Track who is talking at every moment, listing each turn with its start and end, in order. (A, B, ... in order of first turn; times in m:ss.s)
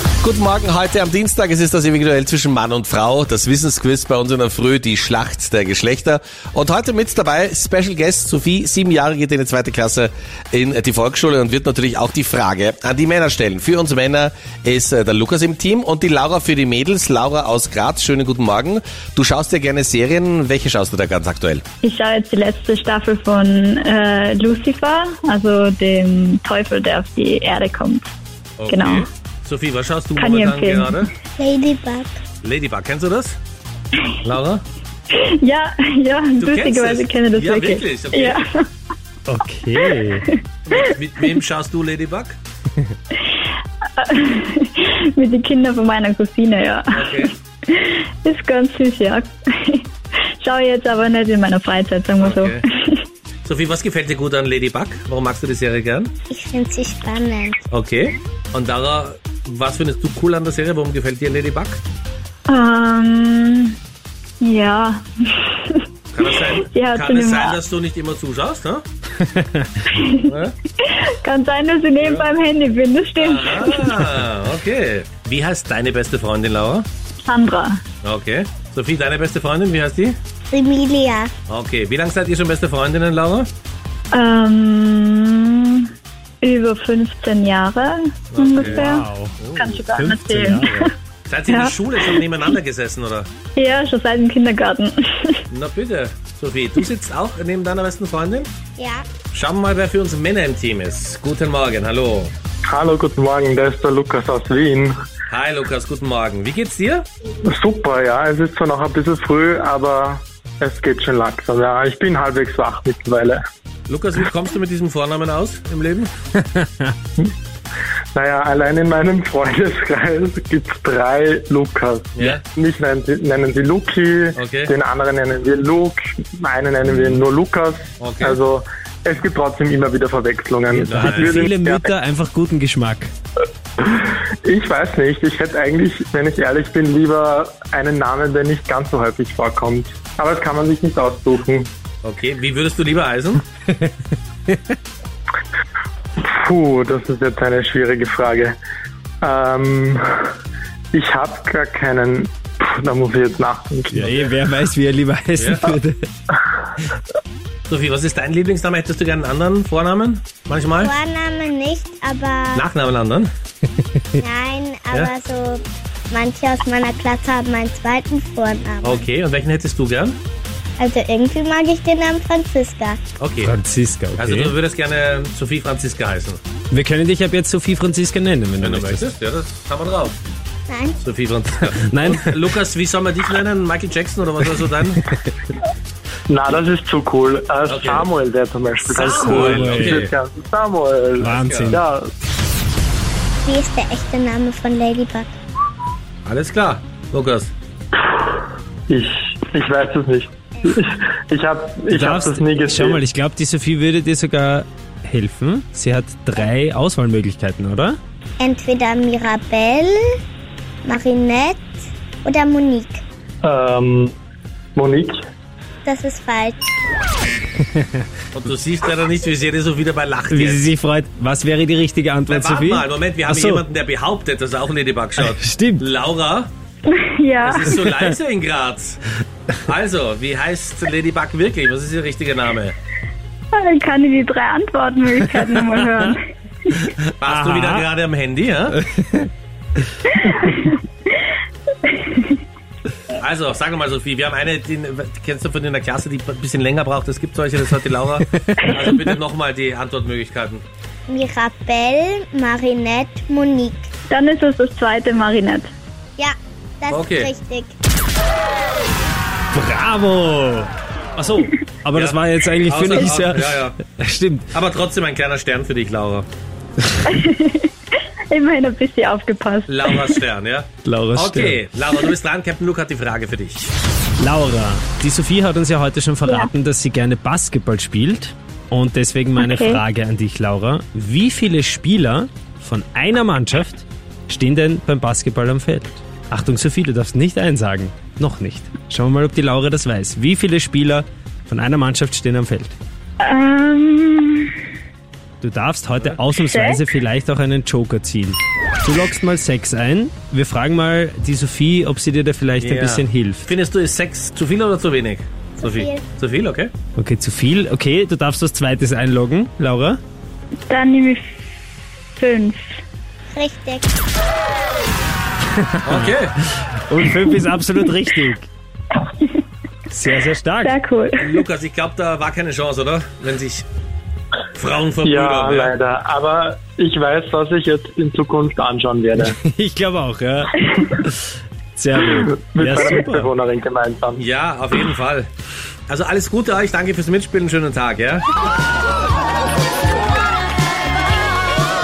0:00.2-0:21.6 A
0:21.8-0:28.1 B
0:28.6-0:31.1 A
0:28.7-0:29.1 B
0:30.2-0:31.0 B
0:31.4-0:32.2 C
0:32.4-0:33.4 A
0:34.2-0:34.6 A
0:35.1-0:38.7 B
0:36.4-0:38.4 A
0:39.3-0:40.2 D
0:40.6-0:42.4 A
0:44.0-0:53.0 B
0:46.9-0:47.3 A
0:52.2-0:52.6 A
0:53.4-0:56.1 A
0:56.3-0:57.6 C
0:57.7-1:01.8 A
1:02.5-1:03.8 B
1:04.4-1:05.8 B
1:06.1-1:08.8 A
1:06.6-1:07.6 B
1:09.2-1:09.7 D
1:09.9-1:14.2 B
1:10.2-1:10.6 A
1:12.0-1:12.3 A
1:13.2-1:16.9 A
1:17.2-1:17.8 B
1:18.0-1:20.2 A
1:20.5-1:21.3 C
1:21.5-1:23.5 A
1:24.1-1:25.9 B
1:26.4-1:30.9 B
1:28.3-1:29.8 A
1:28.5-1:29.3 D
1:30.0-1:30.9 D
1:31.3-1:33.3 A
1:31.5-1:32.2 B
1:33.6-1:35.4 B
1:35.5-1:38.5 A
1:38.8-1:39.1 C
1:39.3-1:42.3 A
1:42.7-1:45.0 E
1:45.3-1:47.1 A
1:47.5-1:53.4 E
1:53.9-1:56.1 A
1:56.4-1:56.9 D
1:58.1-2:11.9 E
2:02.2-2:02.4 A
2:04.4-2:04.7 A
2:08.0-2:08.4 A
2:10.7-2:13.1 D
2:10.9-2:11.4 A
2:13.8-2:21.7 E
2:22.0-2:23.4 A
2:26.2-2:28.6 E
2:29.2-2:30.3 E
2:30.9-2:34.2 E
2:33.9-2:36.1 D
2:35.4-2:35.8 A
2:37.7-2:41.0 A
2:40.8-2:42.7 C
2:42.6-2:43.3 A
2:44.0-2:44.2 D
2:44.2-2:49.1 C
2:48.8-2:50.2 A
2:50.8-2:53.0 C
2:53.2-2:53.5 A
2:53.4-2:54.6 D
2:54.2-2:56.4 A
2:56.7-2:59.0 D
2:58.6-3:00.2 A
3:00.7-3:01.0 C
3:01.0-3:05.0 A
3:01.7-3:02.3 D
3:06.3-3:12.1 E
3:07.7-3:08.1 A
3:08.9-3:10.1 A
3:09.0-3:10.1 D
3:11.2-3:11.8 A
3:11.2-3:11.8 D
3:13.4-3:15.3 C
3:16.2-3:17.5 A
3:18.1-3:18.4 E
3:18.9-3:23.0 E
3:21.9-3:28.0 D
3:28.4-3:30.1 C
3:30.8-3:33.0 C
3:33.4-3:34.1 E
3:34.8-3:35.2 E
3:35.9-3:36.6 C
3:37.8-3:38.0 D
3:38.3-3:40.7 A
3:40.3-3:43.6 D
3:42.3-3:46.5 A
3:45.2-3:45.8 D
3:46.9-3:47.8 B
3:47.4-3:49.0 A
3:49.6-3:52.8 A
3:53.5-3:56.2 B
3:57.2-3:58.8 A
3:57.2-3:57.9 D
3:58.7-3:59.3 D
4:00.1-4:00.8 B
4:01.9-4:02.3 B
4:03.2-4:10.6 A
4:08.3-4:08.7 D
4:11.1-4:13.9 C
4:14.1-4:15.7 B
4:16.2-4:17.7 C
4:16.9-4:17.3 A
4:19.5-4:24.5 D
4:21.9-4:23.8 A
4:24.5-4:26.3 A
4:27.0-4:27.7 B
4:28.3-4:30.2 B
4:29.7-4:33.7 A
4:30.8-4:31.6 D
4:34.2-4:52.8 D
4:36.3-4:36.5 B
4:39.4-4:39.8 B
4:53.2-4:54.5 B
4:55.4-5:03.5 D
4:56.4-4:56.8 B
5:02.6-5:06.7 A
5:05.6-5:06.0 C
5:07.0-5:10.0 D
5:10.7-5:11.3 B
5:12.2-5:12.6 B
5:13.3-5:13.9 C
5:15.6-5:18.5 D
5:15.9-5:16.4 A
5:19.9-5:20.7 D
5:20.6-5:21.3 B
5:21.2-5:23.7 A
5:24.6-5:25.7 A
5:25.0-5:29.4 E
5:29.2-5:31.2 D
5:31.8-5:33.3 D
5:32.3-5:34.3 E
5:34.2-5:35.3 A
5:35.9-5:38.3 A